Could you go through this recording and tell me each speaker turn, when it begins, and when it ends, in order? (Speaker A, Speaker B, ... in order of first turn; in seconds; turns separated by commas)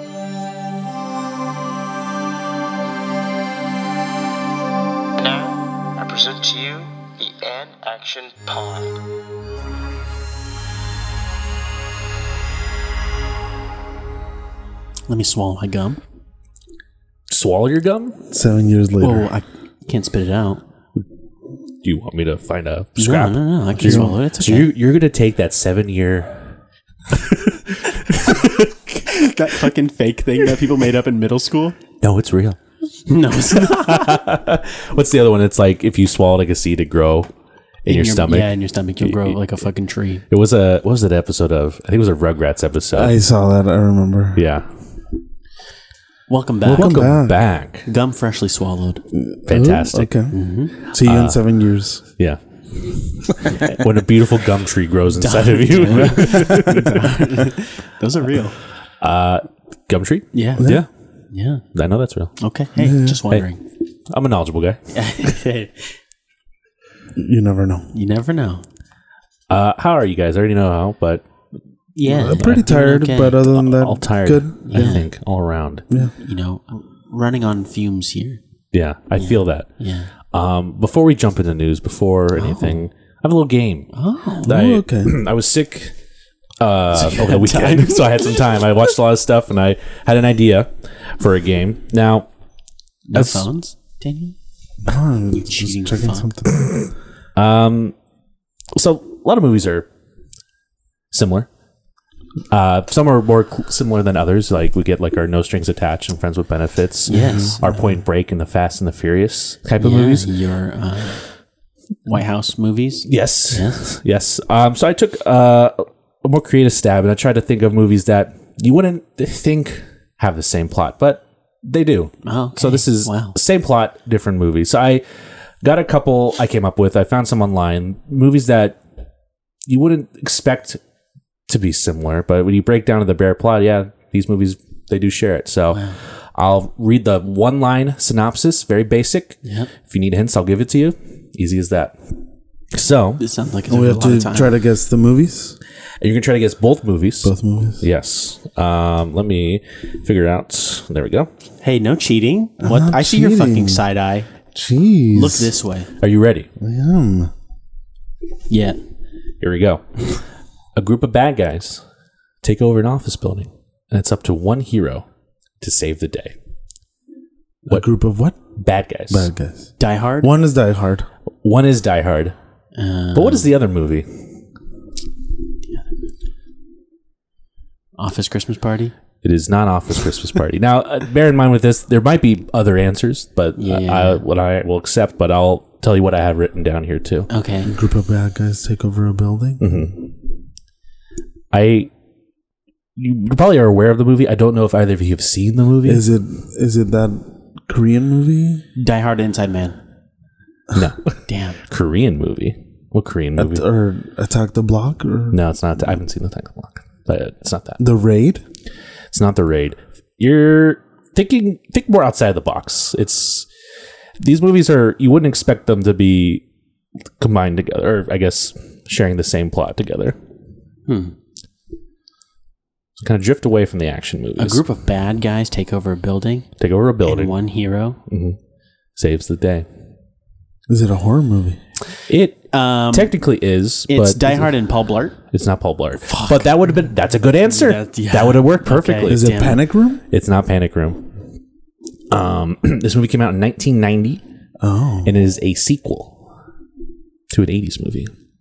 Speaker A: 5.2-9.0, Speaker B: 15.1-16.0, Speaker C: 17.3-18.2, Speaker D: 18.3-19.3, Speaker B: 19.0-20.6, Speaker C: 21.8-26.5, Speaker B: 23.0-24.7, Speaker D: 23.8-24.2, Speaker C: 27.1-29.0, Speaker B: 29.0-31.8, Speaker C: 32.0-32.6, Speaker B: 33.1-34.2, Speaker C: 33.5-37.3, Speaker C: 37.8-39.4, Speaker B: 37.9-40.2, Speaker C: 40.3-43.2, Speaker D: 42.9-44.4, Speaker C: 44.4-44.7, Speaker B: 46.3-47.1, Speaker D: 46.6-47.4, Speaker C: 46.7-47.9, Speaker B: 47.8-49.0, Speaker D: 49.1-52.0, Speaker C: 49.5-50.1, Speaker B: 50.3-50.8, Speaker C: 50.9-51.4, Speaker C: 52.2-57.1, Speaker B: 55.1-58.6, Speaker D: 56.1-56.8, Speaker C: 59.0-60.9, Speaker B: 60.3-60.7, Speaker D: 60.6-60.8, Speaker B: 61.3-61.6, Speaker C: 61.7-62.3, Speaker B: 62.4-63.6, Speaker D: 62.8-63.2, Speaker C: 64.1-64.8, Speaker B: 64.9-66.0, Speaker D: 67.2-67.9, Speaker B: 67.9-68.6, Speaker C: 69.5-71.2, Speaker B: 72.0-73.5, Speaker D: 72.0-75.0, Speaker C: 72.2-72.7, Speaker C: 73.4-75.8, Speaker B: 74.6-75.1, Speaker B: 76.0-78.4, Speaker C: 78.7-79.7, Speaker B: 79.2-80.1, Speaker C: 80.2-83.9, Speaker B: 82.4-82.8, Speaker B: 83.9-84.5, Speaker C: 84.4-85.9, Speaker D: 84.5-85.2, Speaker C: 86.6-92.3, Speaker B: 86.9-88.7, Speaker B: 93.1-94.3, Speaker C: 93.1-93.5, Speaker D: 94.8-96.7, Speaker B: 95.3-96.3, Speaker C: 97.3-97.9, Speaker C: 98.7-99.8, Speaker C: 101.1-101.5, Speaker C: 102.5-110.3, Speaker B: 107.1-107.6, Speaker D: 107.1-107.7, Speaker B: 109.8-111.2, Speaker B: 112.1-113.8, Speaker C: 113.0-125.0, Speaker B: 122.2-123.3, Speaker C: 125.6-128.8, Speaker C: 129.7-130.8, Speaker C: 131.5-141.9, Speaker B: 135.7-136.0, Speaker B: 139.4-139.7, Speaker C: 142.7-143.2, Speaker B: 143.2-144.6, Speaker D: 143.7-145.6, Speaker C: 146.0-151.3, Speaker D: 147.2-147.8, Speaker B: 151.6-154.3, Speaker D: 152.6-153.8, Speaker D: 154.5-155.5, Speaker B: 155.1-155.9, Speaker C: 156.0-156.5, Speaker D: 156.6-157.3, Speaker B: 158.5-158.8, Speaker C: 159.4-161.8, Speaker C: 162.4-165.0, Speaker C: 165.6-166.3, Speaker D: 167.7-168.4, Speaker C: 168.5-169.3, Speaker D: 169.1-171.1, Speaker B: 169.8-170.3, Speaker C: 171.4-172.3, Speaker B: 172.7-173.5, Speaker C: 173.1-174.3, Speaker B: 178.0-178.9, Speaker C: 179.2-187.3, Speaker B: 183.6-184.2, Speaker B: 187.3-187.7, Speaker D: 187.6-189.9, Speaker C: 189.6-190.1, Speaker C: 191.5-191.9, Speaker C: 192.9-196.0, Speaker D: 195.8-198.6, Speaker B: 198.7-199.8, Speaker C: 200.7-203.6, Speaker B: 201.3-201.6, Speaker D: 203.3-205.4, Speaker C: 205.3-207.8, Speaker D: 207.8-208.4, Speaker C: 209.1-213.5, Speaker C: 214.2-216.4, Speaker C: 217.2-220.2, Speaker B: 220.9-221.1, Speaker C: 223.0-224.6, Speaker B: 224.4-226.5, Speaker C: 226.6-227.3, Speaker B: 227.0-228.0, Speaker C: 228.1-228.4, Speaker C: 228.9-229.7, Speaker D: 230.7-231.6, Speaker C: 232.1-234.5, Speaker B: 232.5-233.1, Speaker B: 233.9-235.2, Speaker C: 235.3-239.2, Speaker B: 236.1-236.5, Speaker B: 237.5-239.6, Speaker D: 239.1-240.0, Speaker C: 240.1-241.1, Speaker C: 242.1-244.2, Speaker D: 244.6-245.1, Speaker C: 245.0-246.2, Speaker C: 247.3-248.1